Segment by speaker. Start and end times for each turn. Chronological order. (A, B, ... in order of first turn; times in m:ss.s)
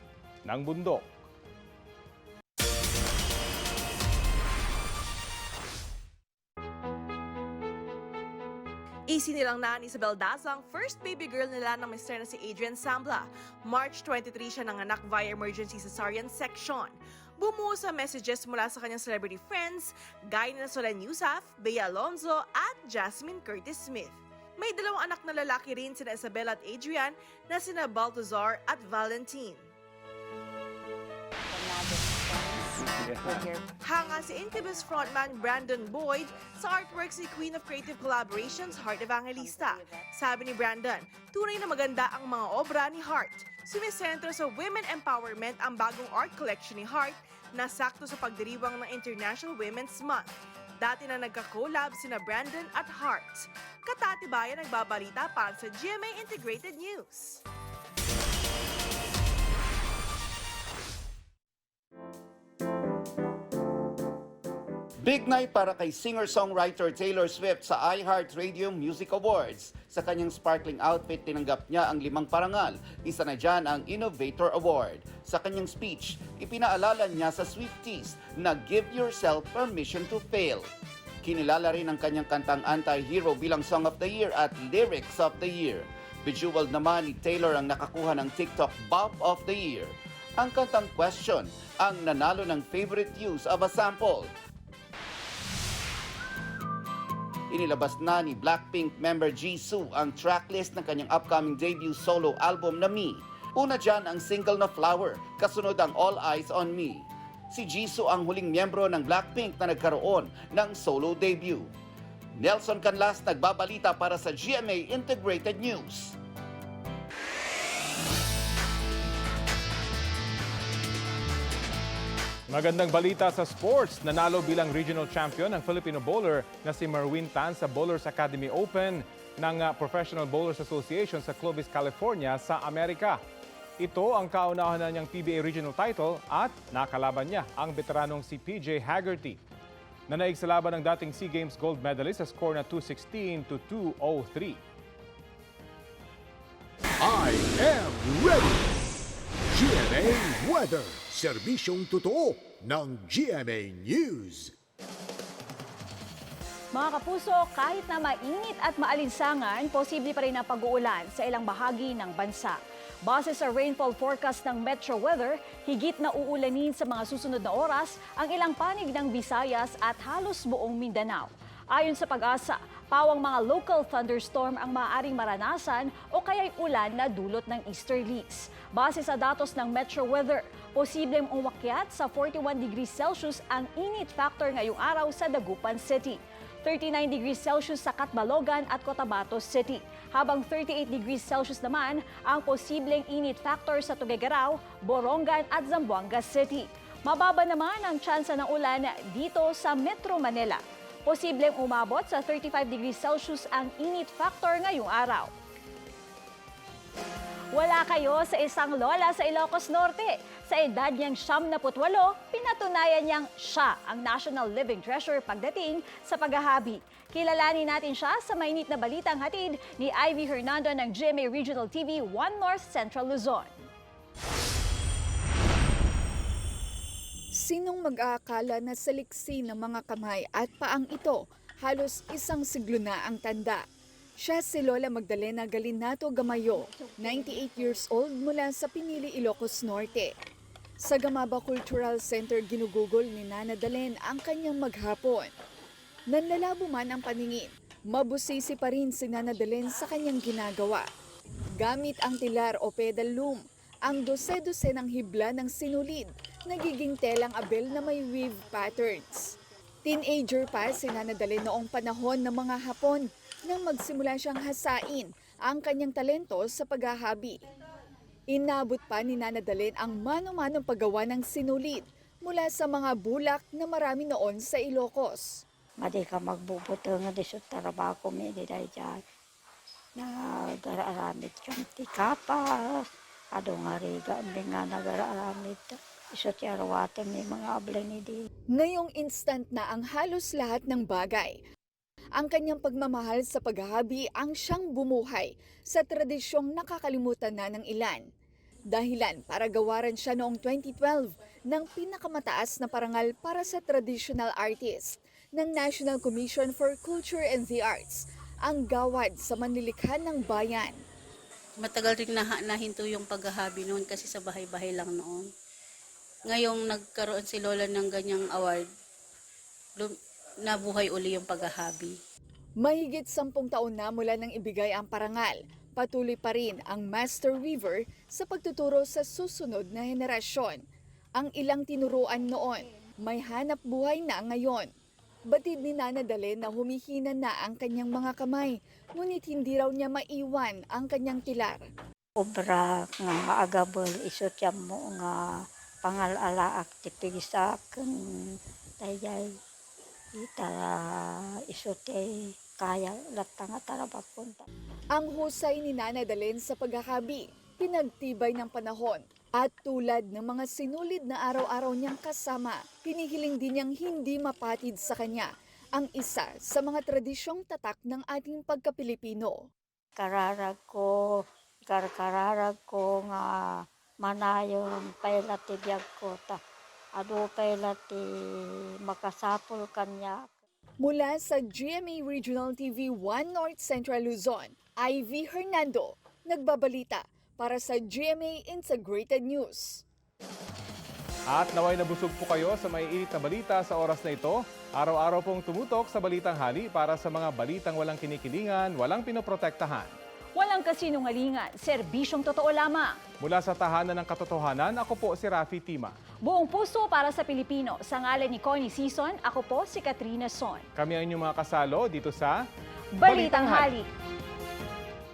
0:00.4-0:01.0 A
0:09.1-0:29.7 B
0:33.8-0:57.4 B
1:05.0-1:20.7 C
1:21.2-1:34.3 C
1:37.5-1:51.7 C
1:52.4-1:56.1 C
2:02.5-2:13.2 A
2:13.8-2:19.4 A
2:20.1-2:24.6 A
2:27.0-2:28.9 D
2:29.5-2:34.5 D
2:36.7-3:25.3 E
3:27.5-3:43.6 E
3:47.4-3:53.6 F
3:54.2-4:00.1 F
4:00.8-4:05.3 F
4:06.1-4:10.8 F
4:11.6-4:27.4 F
4:28.3-4:35.4 F
4:35.8-4:39.0 G
4:40.0-4:42.8 G
4:43.4-4:48.2 G
4:48.5-4:51.4 F
4:52.2-4:58.0 F
4:58.7-5:10.8 F
5:11.6-5:15.3 H
5:16.3-5:18.6 H
5:19.8-5:22.0 H
5:22.6-5:30.6 F
5:31.2-5:34.7 F
5:35.3-5:41.7 F
5:42.2-5:45.2 G
5:45.8-5:49.3 G
5:50.2-5:54.4 G
5:54.9-6:09.5 F
6:10.0-6:10.9 G
6:11.7-6:16.4 G
6:17.0-6:20.4 G
6:20.8-6:29.8 F
6:31.3-6:39.9 A
6:40.4-6:43.0 E
6:43.2-6:45.9 A
6:46.2-6:50.6 E
6:50.8-6:52.4 A
6:52.9-6:53.9 E
6:53.0-6:53.7 A